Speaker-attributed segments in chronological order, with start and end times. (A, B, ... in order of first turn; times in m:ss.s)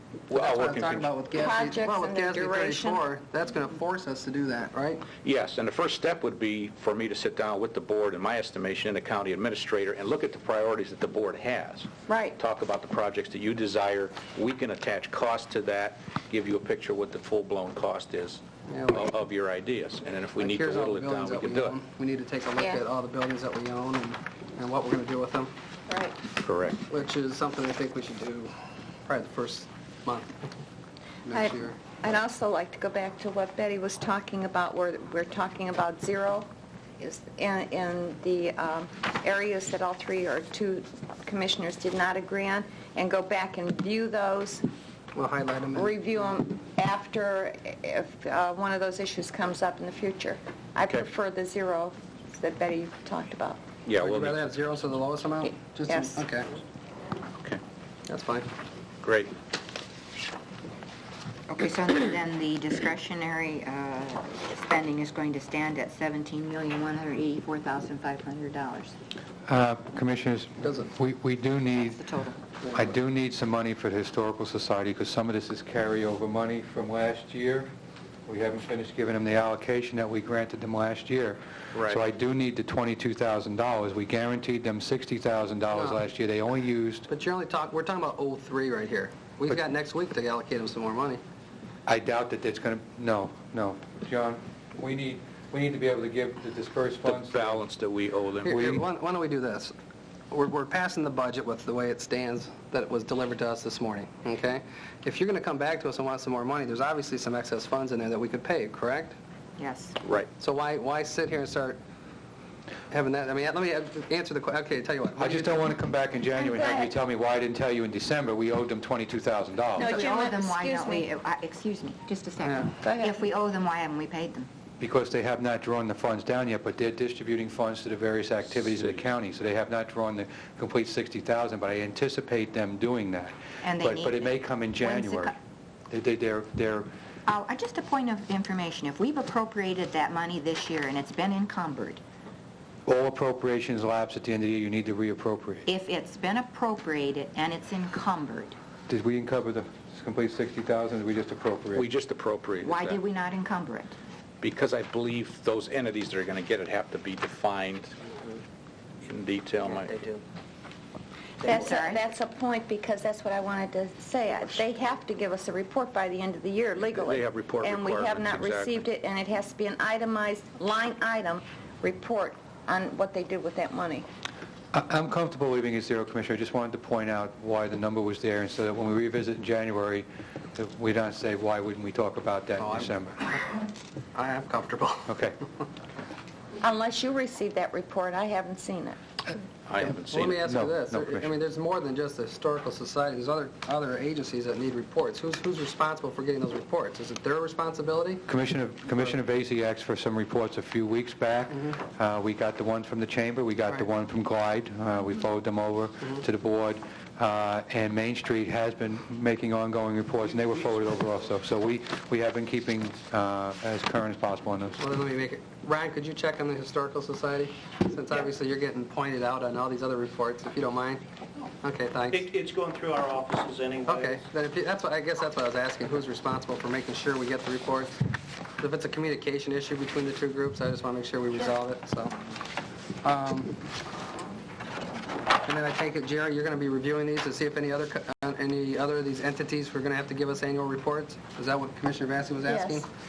0:00.3-0:01.7 A
0:00.3-0:05.1 B
0:01.4-0:03.0 C
0:05.2-0:21.8 A
0:12.1-0:12.4 C
0:18.7-0:19.1 B
0:20.4-0:25.5 B
0:22.6-0:22.8 C
0:25.9-0:26.2 C
0:26.4-0:26.8 A
0:26.9-0:28.5 B
0:29.0-0:30.5 B
0:31.2-0:31.8 B
0:31.3-0:44.6 C
0:45.1-0:46.0 B
0:45.7-0:53.6 C
0:53.8-0:54.7 A
0:54.0-0:56.5 B
0:55.8-0:56.2 C
0:58.1-0:58.5 B
0:59.0-0:59.3 A
1:01.5-1:09.0 D
1:09.4-1:12.0 E
1:10.6-1:10.9 B
1:11.7-1:12.4 D
1:12.7-1:17.7 E
1:18.3-1:27.1 E
1:21.7-1:22.0 A
1:25.7-1:26.0 B
1:27.1-1:31.2 B
1:31.9-1:37.6 E
1:37.0-1:38.8 A
1:38.4-1:39.7 B
1:38.5-1:38.8 E
1:40.3-1:49.2 B
1:49.6-1:50.0 D
1:50.0-1:50.3 A
1:50.4-1:51.8 B
1:52.9-1:55.7 B
1:55.2-2:00.0 E
1:56.4-1:56.8 C
1:59.8-2:04.5 D
1:59.8-2:01.1 C
2:02.8-2:03.2 C
2:04.8-2:15.3 E
2:08.6-2:08.9 A
2:13.6-2:15.4 D
2:15.9-2:16.9 E
2:17.3-2:22.0 D
2:22.8-2:25.6 E
2:25.7-2:28.6 D
2:28.9-2:31.9 E
2:31.8-2:33.0 A
2:32.6-2:34.0 D
2:34.4-2:38.0 A
2:39.0-2:40.1 A
2:41.4-2:42.1 D
2:41.4-2:54.1 C
2:46.9-2:48.8 A
2:54.7-3:03.2 E
3:02.6-3:03.6 B
3:04.1-3:05.1 B
3:05.1-3:05.4 E
3:06.6-3:09.0 C
3:09.7-3:10.4 A
3:09.8-3:18.2 B
3:10.5-3:11.3 E
3:18.3-3:34.8 E
3:30.3-3:31.1 A
3:34.8-3:41.0 B
3:41.6-3:42.3 B
3:42.1-3:44.2 F
3:43.8-3:47.9 B
3:48.6-3:52.2 B
3:53.0-3:53.6 B
3:55.4-4:02.9 B
4:02.4-4:02.8 C